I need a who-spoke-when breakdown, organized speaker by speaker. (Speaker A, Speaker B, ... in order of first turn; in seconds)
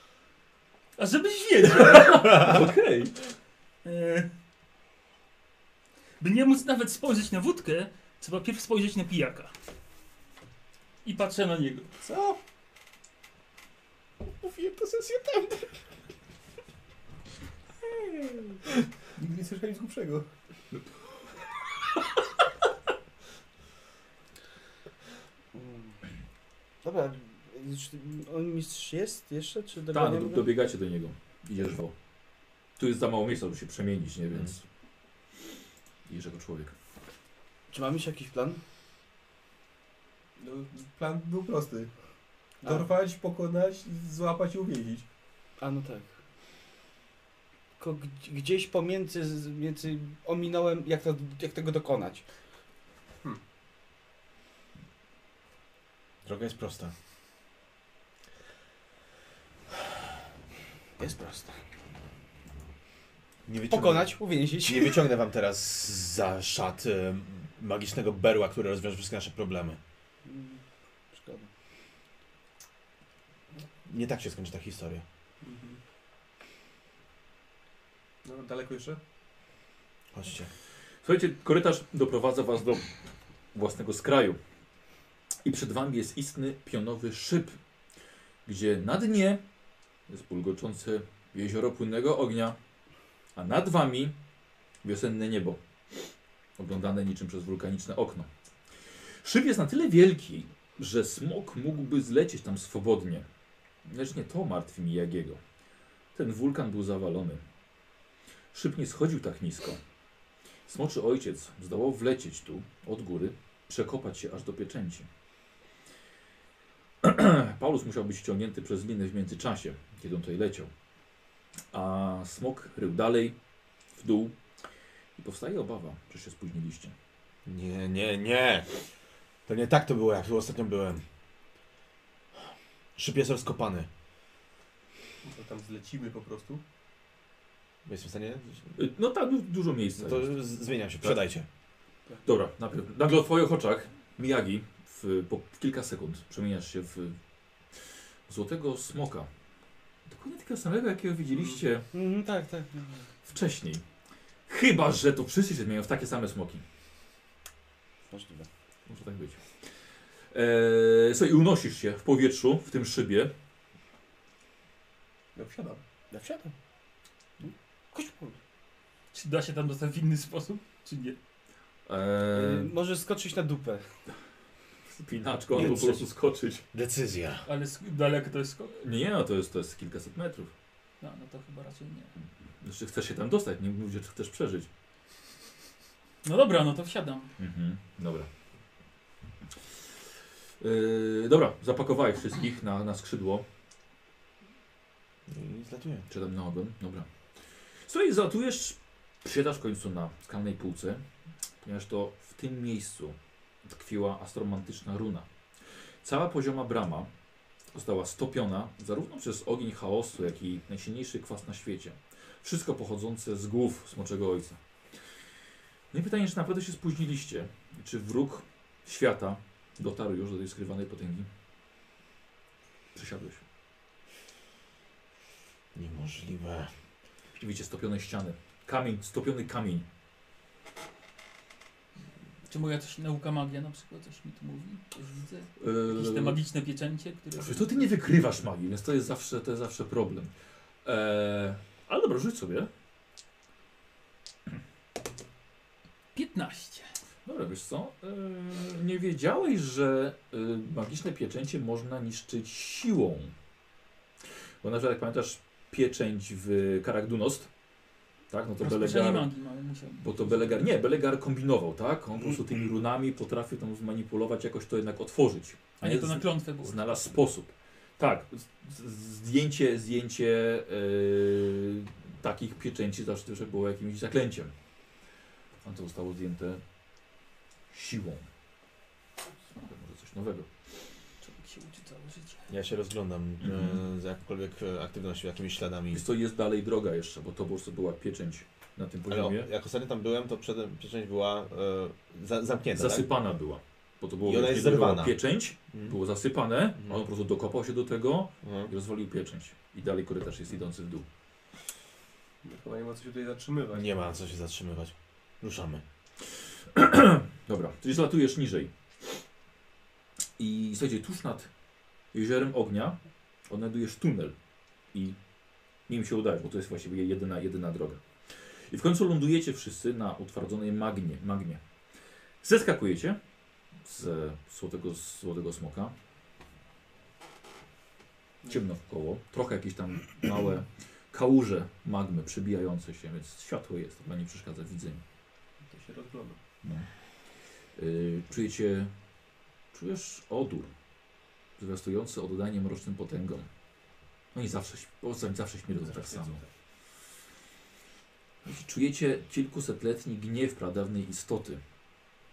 Speaker A: 1.0-2.6, 3.8-4.3, 6.2-9.5, 11.0-11.9, 169.1-171.2, 177.5-178.8, 181.0-182.1, 186.2-187.3, 232.5-237.9, 246.1-246.9, 258.6-260.7, 265.8-267.0, 281.2-282.5
Speaker B: 1.8-3.1, 29.9-31.9, 32.8-34.6, 36.1-36.8, 81.0-82.9, 83.5-84.4, 85.4-87.6, 88.5-89.4, 90.1-92.6, 93.4-94.2, 94.8-95.6, 96.6-98.3, 99.2-103.3, 103.8-105.4, 106.2-107.4, 108.5-109.8, 110.7-115.1, 117.0-120.7, 121.7-123.4, 124.0-124.4, 125.2-126.9, 138.8-140.4, 142.2-147.2, 148.3-149.3, 150.1-151.9, 153.2-153.8, 154.5-156.6, 158.9-159.4, 160.3-163.3, 171.9-172.7, 174.9-176.6, 178.8-180.5, 182.6-184.7, 187.4-188.3, 190.6-193.4, 196.1-197.1, 197.8-201.0, 201.6-205.3, 206.0-207.1, 207.7-214.6, 215.9-221.3, 222.9-223.4, 227.4-229.8, 235.6-236.4, 237.4-240.3, 240.8-242.7, 247.3-253.3, 254.6-257.5, 258.3-259.3, 260.0-274.5, 275.6-276.6, 277.7-278.3, 279.6-280.5, 283.4-283.8, 285.9-289.5, 292.7-301.1, 306.7-308.7, 310.4-311.5, 312.1-314.4, 314.9-315.2, 315.9-318.0, 318.7-321.6, 322.4-323.2, 323.8-325.9, 328.5-335.0, 336.6-336.9, 337.8-338.9, 339.7-340.7, 341.6-343.5, 344.3-346.4, 348.4-351.6
Speaker C: 12.0-12.4, 14.3-15.7, 17.9-20.3, 40.4-41.9, 42.6-45.0, 75.4-75.8, 78.2-79.0, 135.2-136.6, 165.3-165.8, 302.4-303.9, 335.7-336.4, 345.8-346.5
Speaker D: 25.5-26.0, 26.8-30.5, 37.7-38.6, 45.6-46.1, 47.8-52.2, 61.0-61.6, 63.7-65.0, 70.2-71.5, 151.9-153.1, 158.1-158.5, 166.1-166.5, 167.4-168.4, 172.3-173.9, 175.6-176.0
Speaker E: 56.2-56.9, 63.5-69.8, 73.9-75.0, 80.1-80.5, 127.5-128.7, 129.5-131.0, 133.0-133.9, 137.8-138.7, 140.0-141.5, 175.6-176.0, 176.7-177.4, 195.3-196.1, 225.8-226.7, 282.5-286.0, 289.1-293.1, 294.2-295.2, 298.4-298.7, 303.7-305.8